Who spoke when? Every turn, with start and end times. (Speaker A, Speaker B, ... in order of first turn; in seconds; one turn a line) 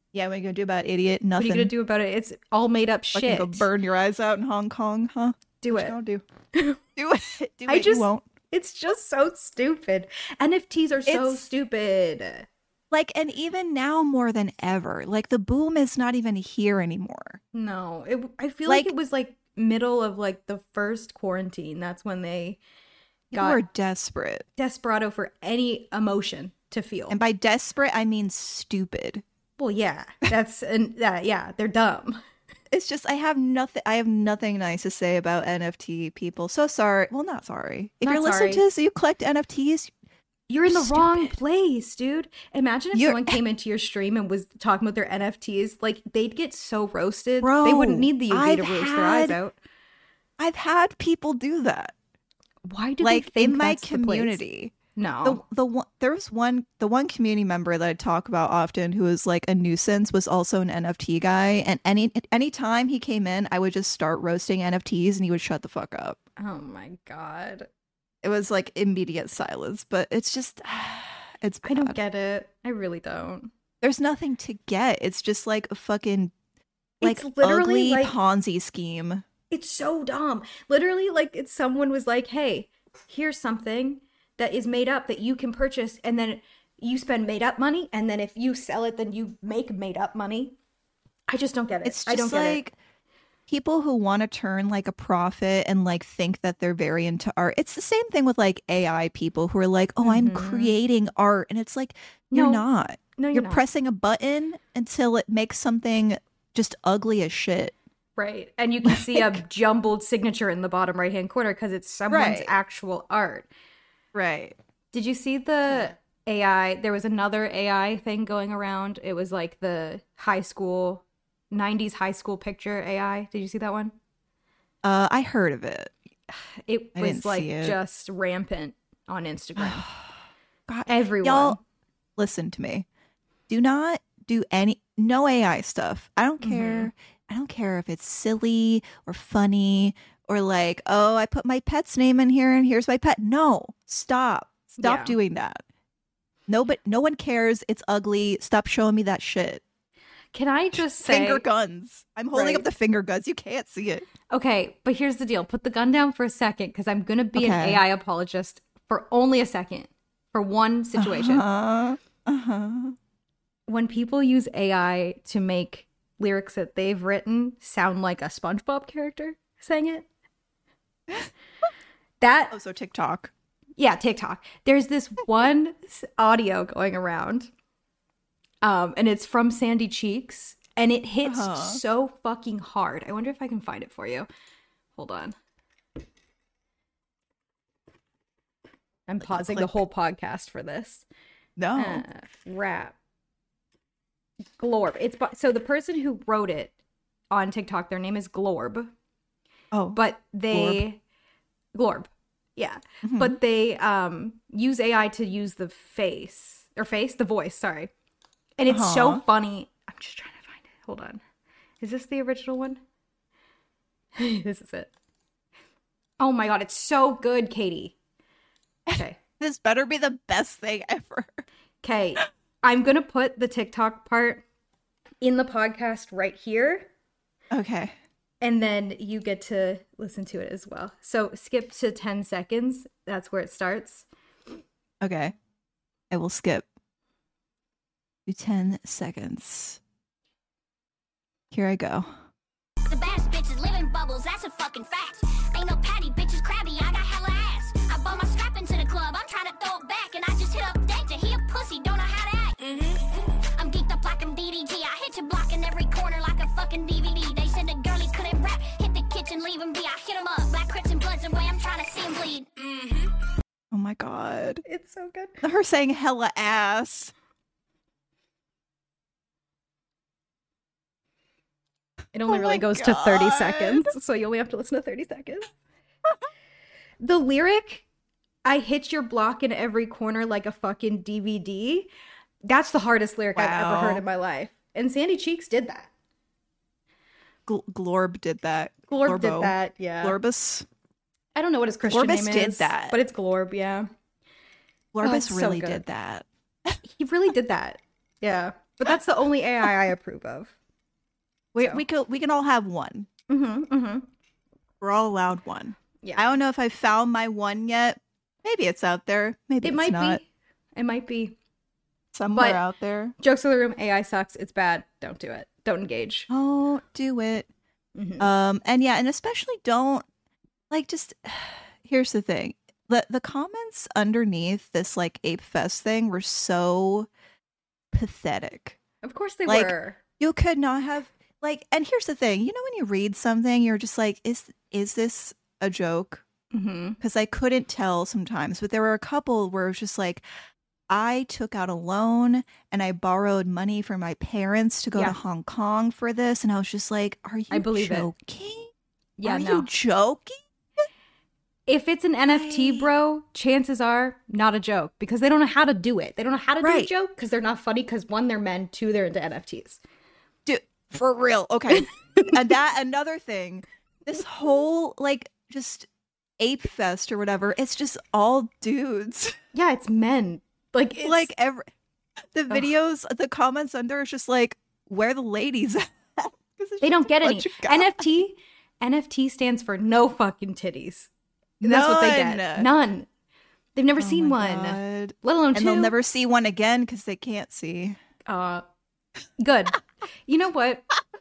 Speaker A: 0.1-1.7
Speaker B: 1.4-3.7
Speaker A: 3.1-6.2
Speaker B: 5.6-6.0
Speaker B: 6.5-6.8
Speaker A: 7.0-8.3
Speaker B: 7.7-12.5
Speaker A: 11.1-11.5
Speaker A: 12.9-17.4
Speaker B: 17.5-22.6
Speaker A: 18.7-18.9
Speaker A: 23.3-24.4
Speaker B: 23.3-23.6
Speaker B: 24.6-27.2
Speaker A: 27.1-29.2
Speaker B: 29.6-32.2
Speaker A: 32.7-39.9
Speaker B: 38.0-38.6
Speaker B: 40.5-49.5
Speaker A: 40.6-41.3
Speaker A: 42.9-43.4
Speaker A: 47.4-49.4
Speaker A: 50.4-51.9
Speaker B: 52.6-54.4
Speaker A: 53.0-66.2
Speaker B: 55.0-55.4
Speaker B: 66.4-67.7
Speaker A: 68.2-72.0
Speaker B: 71.6-73.5
Speaker A: 73.8-76.3
Speaker B: 77.0-78.2
Speaker A: 77.0-79.2
Speaker B: 79.5-90.5
Speaker B: 91.3-92.6
Speaker A: 91.8-92.8
Speaker A: 93.5-107.7
Speaker B: 100.0-100.7
Speaker B: 102.3-102.6
Speaker B: 103.2-103.6
Speaker B: 108.2-113.5
Speaker A: 108.8-109.4
Speaker A: 112.1-112.5
Speaker A: 114.1-114.6
Speaker B: 114.9-123.9
Speaker A: 124.8-125.9
Speaker B: 126.3-129.9
Speaker A: 126.9-127.8
Speaker A: 129.6-130.0
Speaker A: 130.7-131.6
Speaker B: 130.9-131.6
Speaker A: 132.2-132.8
Speaker A: 133.5-145.6
Speaker B: 136.4-136.9
Speaker B: 144.8-145.2
Speaker A: 146.5-149.6
Speaker B: 150.3-151.4
Speaker A: 150.8-154.1
Speaker B: 152.3-152.6
Speaker B: 154.3-161.4
Speaker A: 157.3-157.8
Speaker A: 161.0-163.0
Speaker B: 163.7-170.1
Speaker B: 172.2-172.6
Speaker A: 172.5-173.3
Speaker B: 173.8-177.5
Speaker B: 178.6-184.3
Speaker A: 181.2-181.8
Speaker B: 184.9-185.3
Speaker B: 189.1-191.0
Speaker A: 189.2-189.8
Speaker A: 191.6-192.0
Speaker B: 191.7-192.9
Speaker B: 194.6-196.7
Speaker B: 197.3-198.9
Speaker A: 199.7-200.0
Speaker B: 199.9-201.0
Speaker A: 200.5-200.8
Speaker B: 201.7-207.9
Speaker A: 203.0-203.4
Speaker B: 208.6-211.2
Speaker A: 208.7-209.2
Speaker B: 211.8-212.8
Speaker B: 214.2-214.9
Speaker B: 216.2-217.9
Speaker A: 218.9-221.4
Speaker B: 218.9-219.2
Speaker B: 221.8-224.4
Speaker B: 225.2-226.9
Speaker A: 227.5-227.9
Speaker B: 228.4-234.1
Speaker A: 235.0-235.3
Speaker A: 236.1-236.7
Speaker A: 238.2-239.8
Speaker A: 241.5-242.1
Speaker C: 242.9-263.1
Speaker A: 263.7-264.6
Speaker B: 264.6-265.4
Speaker A: 265.4-267.1
Speaker B: 272.1-275.5
Speaker A: 272.3-273.9
Speaker B: 277.0-277.8
Speaker B: 278.4-281.9
Speaker B: 282.4-285.9
Speaker A: 283.3-284.0
Speaker A: 287.5-290.6
Speaker B: 288.9-290.2
Speaker B: 291.3-293.9
Speaker A: 291.9-293.0
Speaker A: 294.9-296.8
Speaker B: 295.0-295.8
Speaker B: 296.8-300.5
Speaker A: 301.5-303.1
Speaker B: 303.3-304.1
Speaker A: 304.8-310.2
Speaker B: 306.0-306.3
Speaker B: 309.6-310.2
Speaker B: 310.8-311.4
Speaker A: 312.1-313.1
Speaker B: 312.3-312.6
Speaker B: 313.2-316.3
Speaker A: 316.3-317.5
Speaker B: 317.9-318.3
Speaker A: 318.2-320.1
Speaker A: 320.7-327.1
Speaker A: 327.9-328.8
Speaker B: 329.0-330.0
Speaker A: 329.4-336.2
Speaker B: 336.5-337.0
Speaker A: 337.0-340.2
Speaker A: 340.9-348.7
Speaker B: 347.5-348.1
Speaker B: 349.2-349.7
Speaker A: 349.2-350.8
Speaker B: 351.7-359.8
Speaker A: 352.3-352.9
Speaker A: 356.6-356.9
Speaker A: 360.4-365.9
Speaker B: 361.7-362.4
Speaker A: 366.4-369.4
Speaker B: 369.5-371.3
Speaker A: 371.0-371.7
Speaker A: 372.3-378.0
Speaker B: 376.8-381.1
Speaker A: 381.6-382.7
Speaker B: 381.6-383.1
Speaker B: 383.8-385.9
Speaker A: 384.0-388.0
Speaker B: 388.2-388.6
Speaker B: 389.4-390.8